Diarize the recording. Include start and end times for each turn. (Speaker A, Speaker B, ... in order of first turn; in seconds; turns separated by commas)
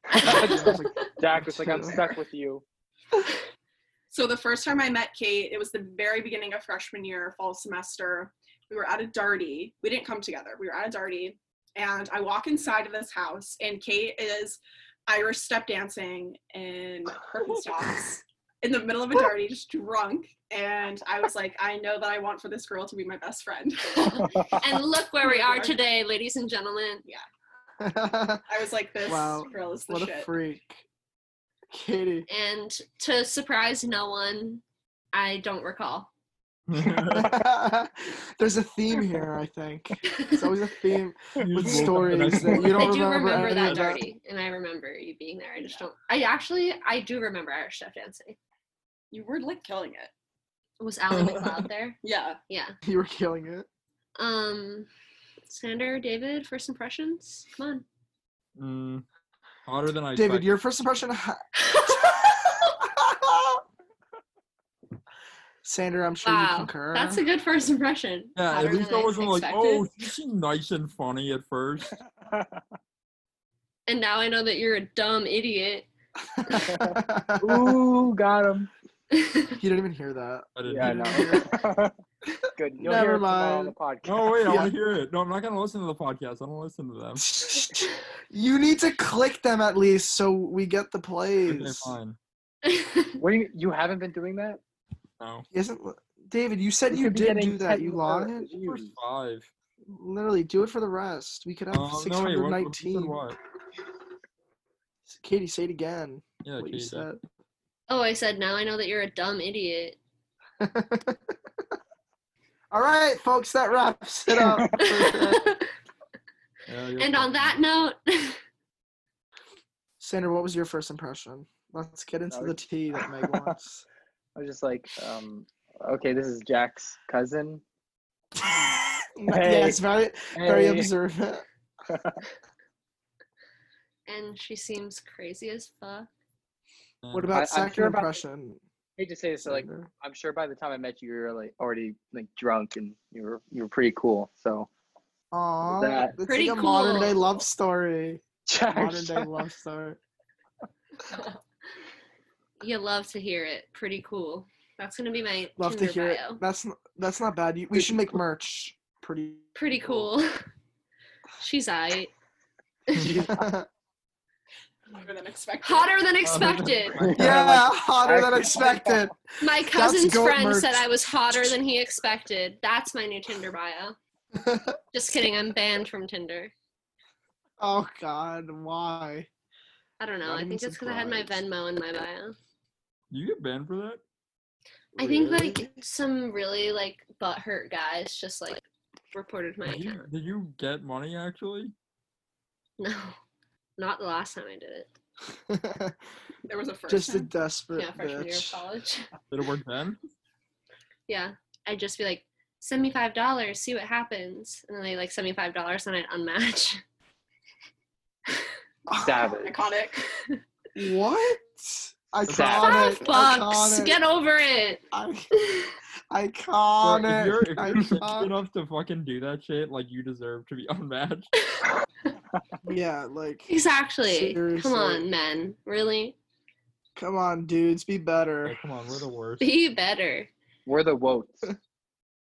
Speaker A: 0.1-2.0, Speaker B: 0.2-2.6, Speaker C: 0.2-0.7, Speaker D: 4.1-24.0, Speaker C: 24.0-27.0, Speaker B: 24.2-24.6, Speaker D: 25.2-25.8, Speaker A: 27.8-28.4, Speaker D: 28.5-30.3, Speaker A: 29.1-30.8, Speaker A: 31.7-32.3, Speaker C: 32.3-34.6, Speaker C: 35.1-36.1, Speaker E: 36.7-37.3, Speaker A: 36.8-44.0, Speaker C: 40.1-40.4, Speaker E: 41.4-44.0, Speaker B: 41.6-42.6, Speaker C: 42.7-48.4, Speaker D: 49.1-50.1, Speaker C: 50.8-52.8, Speaker E: 51.1-51.5, Speaker D: 52.0-52.4, Speaker A: 52.8-53.7, Speaker C: 54.2-54.9, Speaker C: 55.5-57.8, Speaker E: 58.6-59.0, Speaker E: 59.7-60.6, Speaker A: 60.1-63.6, Speaker C: 61.6-61.9, Speaker A: 65.6-67.2, Speaker C: 66.2-69.9, Speaker E: 68.4-71.9, Speaker C: 73.9-75.9, Speaker A: 76.3-77.8, Speaker B: 76.7-78.7, Speaker C: 79.2-79.6, Speaker A: 79.6-81.5, Speaker E: 80.6-81.4, Speaker B: 80.7-81.9, Speaker B: 82.6-84.3, Speaker A: 82.8-83.8, Speaker E: 84.0-87.2, Speaker A: 84.4-84.7, Speaker A: 87.2-92.0, Speaker E: 91.5-92.2, Speaker C: 92.7-93.2, Speaker B: 93.2-94.6, Speaker E: 95.2-95.5, Speaker A: 95.5-98.7, Speaker B: 96.9-98.9, Speaker E: 98.7-99.5, Speaker A: 99.9-103.2, Speaker E: 101.7-103.4, Speaker A: 105.1-107.2, Speaker E: 106.4-107.1, Speaker C: 107.9-110.0, Speaker A: 110.6-111.2, Speaker A: 112.7-115.4, Speaker B: 114.4-114.9, Speaker C: 115.0-115.7, Speaker E: 116.7-117.6, Speaker C: 117.0-118.4, Speaker A: 120.0-123.8, Speaker B: 122.3-123.5, Speaker B: 124.4-127.6, Speaker A: 129.2-131.4, Speaker B: 129.3-129.8, Speaker B: 130.3-130.9, Speaker C: 134.1-136.1, Speaker E: 137.0-137.3, Speaker A: 137.1-138.6, Speaker B: 137.3-138.2, Speaker B: 139.0-144.7, Speaker A: 139.4-139.9, Speaker A: 145.3-150.0, Speaker B: 145.7-146.2, Speaker C: 146.3-147.2, Speaker B: 148.5-149.3, Speaker C: 152.6-156.4, Speaker A: 155.6-159.6, Speaker C: 159.6-160.4, Speaker C: 161.4-162.1, Speaker C: 162.9-163.3, Speaker A: 163.0-163.7, Speaker D: 164.9-166.0, Speaker C: 165.6-167.1, Speaker E: 166.2-167.6, Speaker B: 167.1-169.1, Speaker A: 167.2-170.9, Speaker C: 169.4-174.0, Speaker A: 174.4-174.7, Speaker C: 174.9-176.5, Speaker A: 177.6-179.3, Speaker C: 180.0-182.4, Speaker A: 180.2-181.4, Speaker E: 183.1-184.0, Speaker A: 184.9-185.8, Speaker C: 185.0-190.1, Speaker E: 189.6-191.7, Speaker C: 192.8-193.2, Speaker C: 193.8-194.9, Speaker A: 195.5-196.0, Speaker D: 196.5-197.3, Speaker A: 196.9-198.6, Speaker C: 197.7-199.1, Speaker E: 199.3-200.0, Speaker C: 201.1-206.8, Speaker A: 208.9-209.3, Speaker B: 209.0-209.6, Speaker D: 209.4-210.1, Speaker A: 210.8-214.0, Speaker E: 212.3-212.6, Speaker B: 212.3-212.7, Speaker C: 212.6-214.8, Speaker A: 214.9-215.3, Speaker C: 215.4-215.7, Speaker A: 216.1-218.3, Speaker E: 216.8-221.3, Speaker A: 222.7-223.5, Speaker C: 223.5-226.2, Speaker A: 224.0-225.1, Speaker A: 227.0-228.6, Speaker E: 228.4-229.5, Speaker C: 229.4-230.3, Speaker B: 230.7-231.5